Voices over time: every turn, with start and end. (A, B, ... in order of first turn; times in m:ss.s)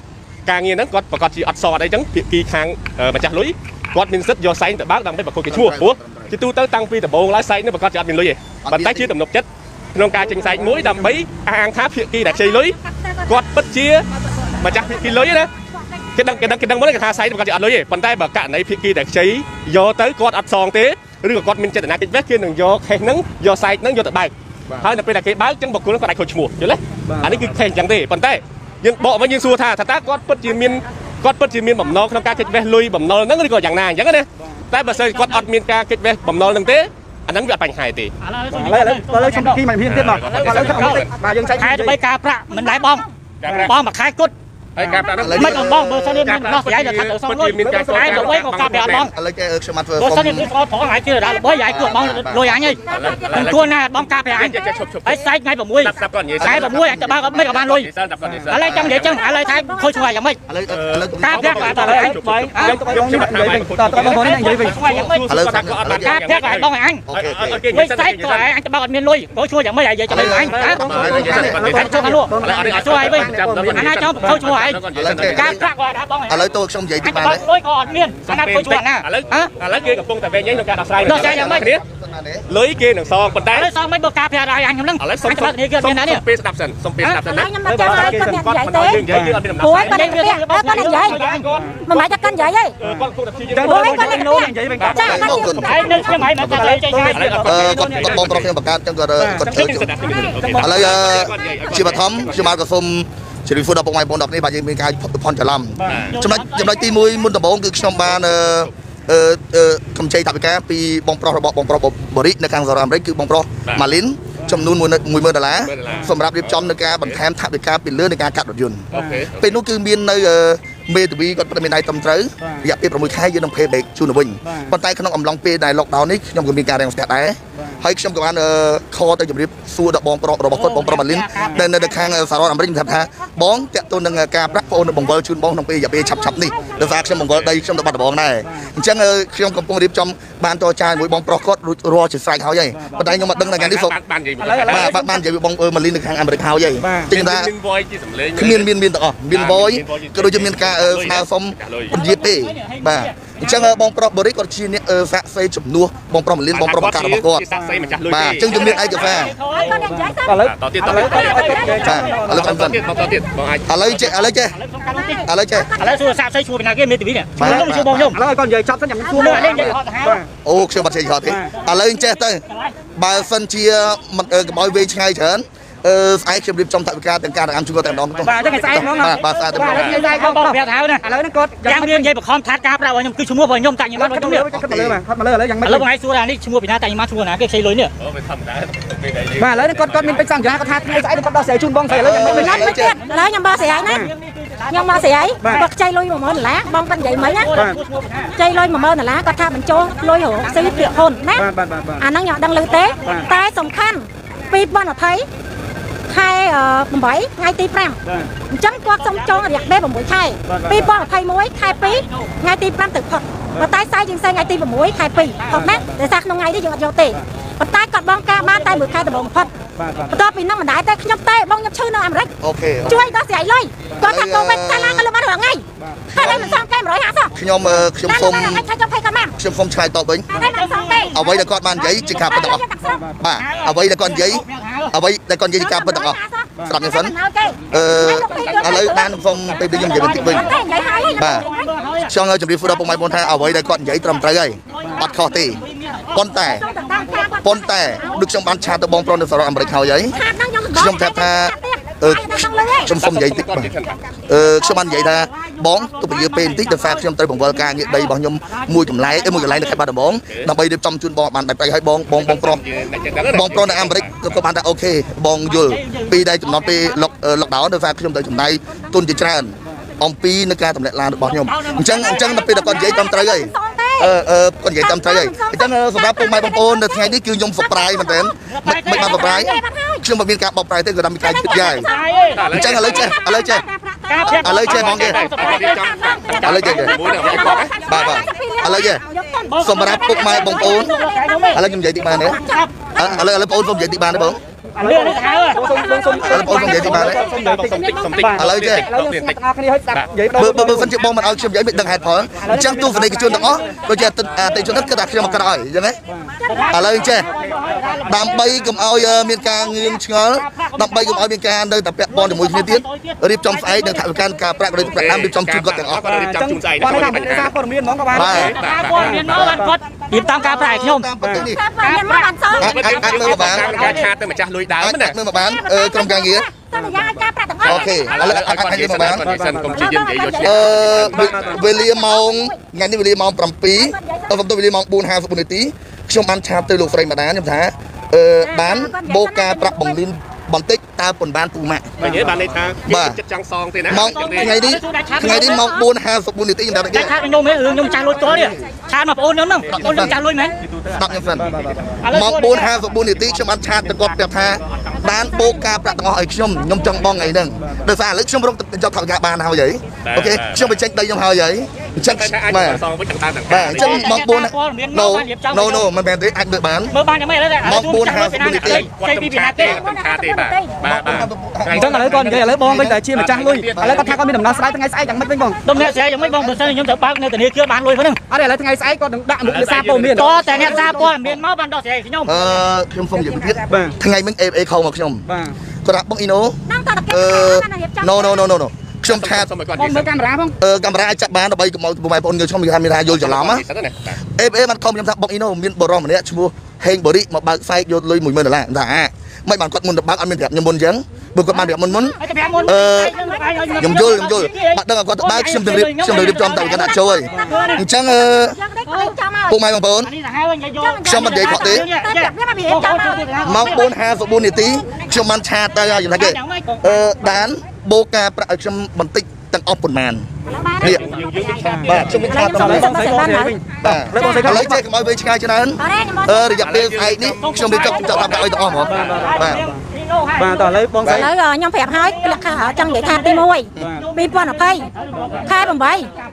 0:00.4-0:15.5 A
0:05.5-0:06.3 B
0:08.6-0:09.1 B
0:10.3-0:11.0 C
0:12.5-0:13.5 D
0:15.8-0:16.1 D
0:16.2-0:38.1 A
0:27.0-0:27.4 C
0:35.0-0:35.4 E
0:38.2-0:39.6 E
0:38.5-0:42.0 C
0:39.8-0:41.1 A
0:40.2-0:44.3 E
0:42.5-0:43.0 D
0:43.4-0:43.7 A
0:43.4-0:43.7 C
0:44.8-0:49.1 A
0:44.8-0:45.1 C
0:45.2-0:46.3 B
0:45.2-0:49.1 E
0:47.6-0:48.4 C
0:48.9-0:50.5 B
0:50.0-0:57.9 E
0:51.2-0:51.9 D
0:51.7-0:52.6 B
0:52.8-0:53.6 D
0:52.9-0:53.6 A
0:54.3-0:55.2 A
0:55.8-0:59.2 A
0:56.4-0:57.2 B
0:58.5-1:00.4 E
0:58.9-1:00.2 D
1:00.5-1:01.8 B
1:00.7-1:08.5 A
1:01.2-1:02.9 E
1:01.6-1:04.8 C
1:04.0-1:05.2 E
1:04.9-1:06.1 B
1:06.0-1:07.0 E
1:07.1-1:07.6 B
1:07.7-1:16.4 E
1:10.1-1:11.6 B
1:10.2-1:14.4 C
1:10.6-1:15.6 A
1:14.9-1:15.6 B
1:16.3-1:17.4 B
1:17.0-1:19.5 E
1:18.2-1:21.8 A
1:21.0-1:22.4 B
1:21.0-1:21.6 E
1:22.5-1:23.7 A
1:23.5-1:26.2 E
1:25.0-1:30.2 A
1:27.2-1:29.0 D
1:27.6-1:28.4 C
1:29.1-1:29.4 C
1:29.6-1:31.2 D
1:29.7-1:31.4 E
1:30.8-1:32.1 A
1:31.5-1:31.8 C
1:31.9-1:32.7 D
1:32.8-1:34.2 A
1:32.8-1:35.4 C
1:33.6-1:35.4 D
1:34.8-1:36.0 A
1:34.9-1:36.7 B
1:35.1-1:37.4 E
1:36.5-1:38.2 C
1:37.1-1:38.5 A
1:37.4-1:40.0 B
1:39.2-1:39.8 C
1:39.5-1:42.5 A
1:40.0-1:40.7 D
1:40.4-1:41.0 C
1:40.5-1:58.8 B
1:41.2-1:41.9 D
1:45.8-1:46.1 C
1:45.8-1:46.1 A
1:46.1-1:47.0 E
1:47.9-1:48.7 A
1:55.6-1:57.2 A
1:58.9-1:59.5 A
1:58.9-1:59.2 C
1:59.4-2:24.0 B
2:02.4-2:02.7 C
2:04.4-2:04.7 C
2:07.5-2:07.8 C
2:10.5-2:12.2 E
2:11.4-2:11.6 C
2:16.8-2:17.6 A
2:18.4-2:18.7 C
2:22.7-2:23.2 C
2:23.4-2:25.0 A
2:24.4-2:25.2 C
2:24.7-2:27.5 B
2:26.8-2:27.1 C
2:27.1-2:28.7 A
2:28.4-2:37.4 B
2:29.3-2:31.9 A
2:31.9-2:33.7 E
2:36.5-2:39.3 A
2:37.5-2:37.9 C
2:38.1-2:39.3 B
2:38.4-2:39.8 E
2:39.5-2:42.0 D
2:39.5-2:42.6 C
2:40.5-2:41.7 A
2:40.9-2:42.1 E
2:41.8-2:42.8 B
2:42.3-2:44.2 A
2:43.7-2:44.6 B
2:44.5-2:45.2 E
2:44.8-2:46.0 D
2:45.2-2:45.7 B
2:45.8-2:48.2 E
2:47.4-2:48.1 B
2:47.4-2:50.3 C
2:49.1-2:50.2 E
2:49.2-2:49.8 B
2:50.4-2:52.4 B
2:51.2-2:51.5 C
2:51.4-2:52.8 E
2:52.9-3:00.0 B
2:57.8-2:58.6 A
2:58.2-3:02.1 C
2:58.4-3:01.0 E
2:59.7-2:59.9 A
3:01.6-3:04.5 E
3:03.9-3:05.8 C
3:04.5-3:05.0 B
3:05.6-3:07.9 E
3:08.0-3:10.3 A
3:09.4-3:12.7 C
3:11.9-3:12.2 A
3:11.9-3:13.0 B
3:12.2-3:14.1 D
3:12.3-3:15.6 E
3:13.9-3:14.1 C
3:14.7-3:17.5 D
3:15.4-3:15.7 C
3:17.1-3:18.3 E
3:18.4-3:21.4 D
3:20.4-3:21.0 E
3:21.3-3:22.0 C
3:22.0-3:25.3 D
3:23.0-3:23.3 C
3:26.1-3:28.0 D
3:28.0-3:28.3 C
3:28.5-3:39.5 D
3:30.4-3:30.9 C
3:31.8-3:32.3 E
3:35.5-3:35.9 C
3:39.8-3:40.2 C
3:40.1-3:42.3 D
3:42.4-3:43.1 B
3:42.8-3:47.3 D
3:44.0-3:45.1 B
3:45.8-3:46.1 C
3:46.1-3:46.6 B
3:47.3-3:48.6 B
3:48.0-3:49.3 D
3:49.4-3:50.3 B
3:50.3-3:53.0 D
3:50.4-3:51.4 E
3:51.1-3:52.6 B
3:52.8-3:53.2 C
3:53.2-3:57.2 B
3:53.2-3:54.9 E
3:55.6-4:01.5 D
3:57.7-4:00.5 B
3:58.3-3:58.9 A
3:59.5-3:59.8 A
3:59.7-4:02.1 E
4:01.2-4:01.5 B
4:02.1-4:05.6 B
4:04.8-4:07.1 E
4:06.1-4:06.6 B
4:06.4-4:08.5 D
4:07.4-4:10.2 B
4:10.1-4:12.9 D
4:10.7-4:13.7 B
4:12.9-4:14.0 A
4:14.3-4:22.6 B
4:14.6-4:19.8 E
4:22.1-4:24.1 A
4:23.3-4:41.9 B
4:25.4-4:27.0 E
4:31.3-4:32.6 E
4:32.2-4:34.1 D
4:34.8-4:38.3 D
4:38.4-4:39.6 E
4:38.9-4:40.0 D
4:41.2-4:53.1 D
4:41.6-4:42.5 E
4:42.4-4:43.1 A
4:42.5-4:43.6 B
4:44.1-4:47.8 E
4:44.3-4:45.2 B
4:44.5-4:48.0 A
4:46.4-4:49.0 B
4:49.5-4:52.7 E
4:49.6-4:50.9 B
4:51.5-4:52.4 B
4:52.9-4:54.4 B
4:54.7-5:00.9 C
4:54.8-4:55.8 E
4:54.9-4:58.2 D
4:56.2-4:57.2 B
4:56.6-4:57.1 E
4:57.2-4:59.4 A
4:58.4-4:58.9 B
5:00.4-5:06.0 B
5:02.4-5:03.8 C
5:03.6-5:05.0 E
5:06.1-5:06.3 C
5:06.4-5:11.2 E
5:06.7-5:07.3 B
5:08.0-5:16.0 B
5:12.1-5:14.4 E
5:14.8-5:17.5 A
5:16.0-5:19.7 C
5:18.1-5:18.6 B
5:18.1-5:19.4 A
5:18.3-5:21.1 E
5:20.2-5:20.6 D
5:20.4-5:21.6 B
5:21.2-5:21.5 C
5:21.3-5:24.0 D
5:21.8-5:24.1 E
5:22.6-5:25.2 A
5:22.6-5:23.9 B
5:24.8-5:26.5 B
5:25.3-5:28.0 D
5:26.7-5:27.2 C
5:27.6-5:31.7 A
5:27.6-5:29.3 B
5:28.9-5:29.9 C
5:29.8-5:32.6 D
5:30.4-5:42.0 B
5:31.0-5:31.6 C
5:33.7-5:34.4 D
5:38.4-5:40.0 D
5:42.0-5:42.6 C
5:42.0-5:44.6 A
5:42.8-5:43.2 B
5:43.9-5:47.2 B
5:43.9-5:45.7 E
5:45.2-5:45.8 D
5:46.9-5:50.5 E
5:48.2-5:48.7 B
5:49.6-5:51.9 A
5:49.7-5:50.2 B
5:50.9-5:51.5 B
5:51.4-5:52.0 C
5:52.0-5:52.8 E
5:52.0-6:02.8 B
5:53.9-5:55.0 A
5:57.0-5:57.3 A
5:57.6-5:57.8 C
6:00.0-6:00.8 A
6:02.0-6:04.1 A
6:03.5-6:07.0 B
6:03.7-6:05.9 E
6:06.9-6:09.8 E
6:07.6-6:08.9 B
6:08.6-6:14.3 A
6:09.6-6:10.8 D
6:10.8-6:13.0 B
6:11.7-6:15.6 C
6:13.7-6:14.2 B
6:14.3-6:14.6 D
6:15.6-6:18.2 E
6:18.3-6:21.0 C
6:19.4-6:21.3 A
6:20.1-6:22.4 E
6:22.2-6:25.2 B
6:23.7-6:24.0 C
6:25.2-6:25.5 C
6:25.8-6:26.6 B
6:26.7-6:28.5 D
6:27.1-6:29.5 B
6:29.0-6:30.1 A
6:29.7-6:30.6 C
6:30.6-6:33.6 B
6:33.1-6:34.2 A
6:34.4-6:43.1 B
6:42.2-6:47.9 E
6:42.5-6:44.1 D
6:43.8-6:48.6 B
6:46.5-6:49.6 D
6:47.3-6:47.6 C
6:48.9-6:49.1 E
6:49.5-6:50.1 B
6:50.0-6:53.8 E
6:50.8-6:53.8 D
6:51.0-6:51.9 B
6:53.4-7:00.3 B
6:56.1-6:57.0 E
7:00.4-7:03.6 D
7:00.8-7:02.4 A
7:00.8-7:01.0 B
7:01.6-7:01.9 C
7:01.9-7:03.0 B
7:02.5-7:04.8 C
7:03.8-7:09.6 B
7:04.1-7:04.6 D
7:05.8-7:06.6 D
7:06.5-7:09.3 A
7:07.4-7:10.7 E
7:08.8-7:09.8 C
7:10.4-7:11.3 C
7:11.0-7:14.9 D
7:12.1-7:13.4 E
7:13.8-7:14.1 C
7:14.9-7:15.8 E
7:15.2-7:15.4 C
7:15.4-7:16.1 D